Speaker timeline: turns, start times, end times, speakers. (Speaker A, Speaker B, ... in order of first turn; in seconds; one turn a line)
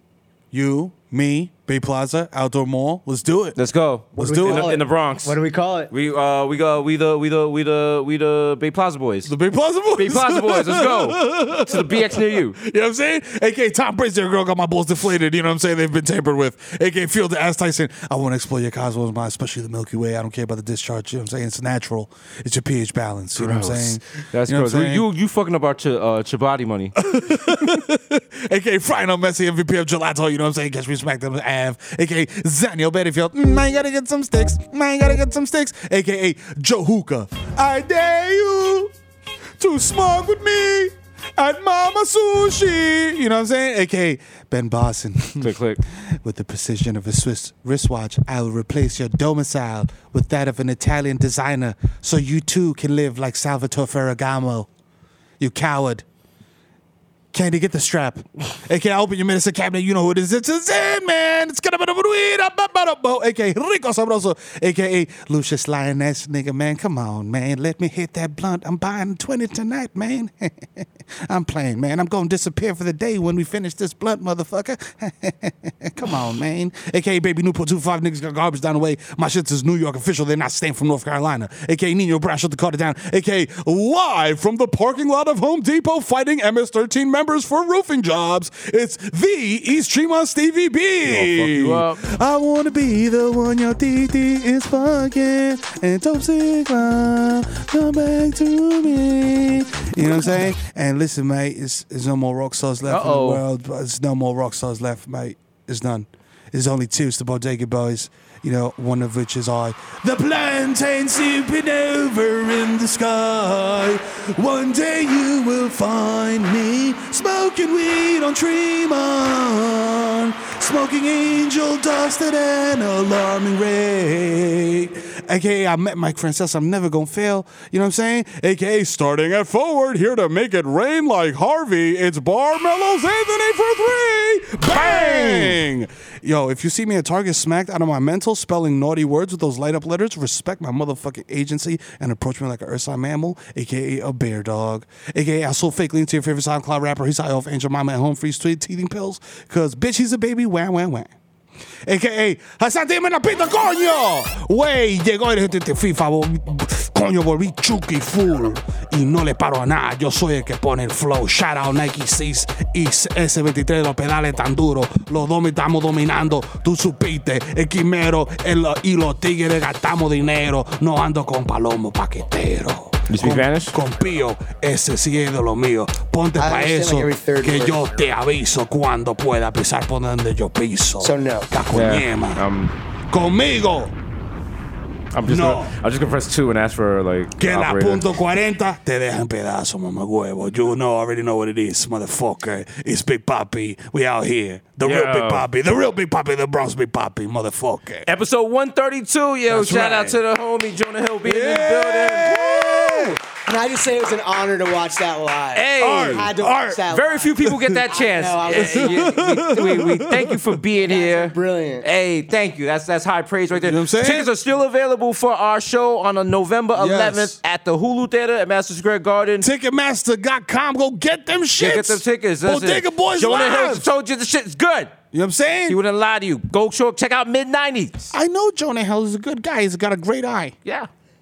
Speaker A: 0.5-3.6
Speaker B: 3.6-5.4
Speaker C: 4.2-5.9
Speaker A: 4.2-4.8
Speaker B: 5.9-9.3
Speaker A: 9.3-25.1
Speaker B: 10.0-12.6
Speaker B: 23.4-27.0
Speaker A: 27.0-38.9
Speaker A: 39.6-54.7
Speaker B: 45.4-45.8
Speaker A: 55.4-56.0
Speaker A: 57.3-151.1
Speaker B: 91.1-92.0
Speaker B: 102.9-103.4
Speaker B: 134.7-135.6
Speaker A: 151.9-182.4
Speaker B: 173.1-173.8
Speaker C: 176.4-177.8
Speaker C: 181.0-181.5
Speaker B: 181.7-182.8
Speaker A: 183.1-184.0
Speaker B: 185.1-188.1
Speaker A: 185.2-185.7
Speaker A: 187.4-198.1
Speaker B: 194.8-195.5
Speaker B: 198.1-202.4
Speaker C: 199.5-200.2
Speaker A: 201.2-203.2
Speaker C: 202.5-209.2
Speaker B: 205.6-206.3
Speaker A: 205.8-206.8
Speaker B: 206.9-219.5
Speaker A: 207.4-207.8
Speaker A: 208.7-210.6
Speaker C: 210.9-211.9
Speaker A: 213.6-214.3
Speaker A: 216.8-217.4
Speaker A: 219.4-223.9
Speaker B: 221.6-225.0
Speaker A: 225.1-225.8
Speaker B: 225.7-228.1
Speaker A: 228.1-230.6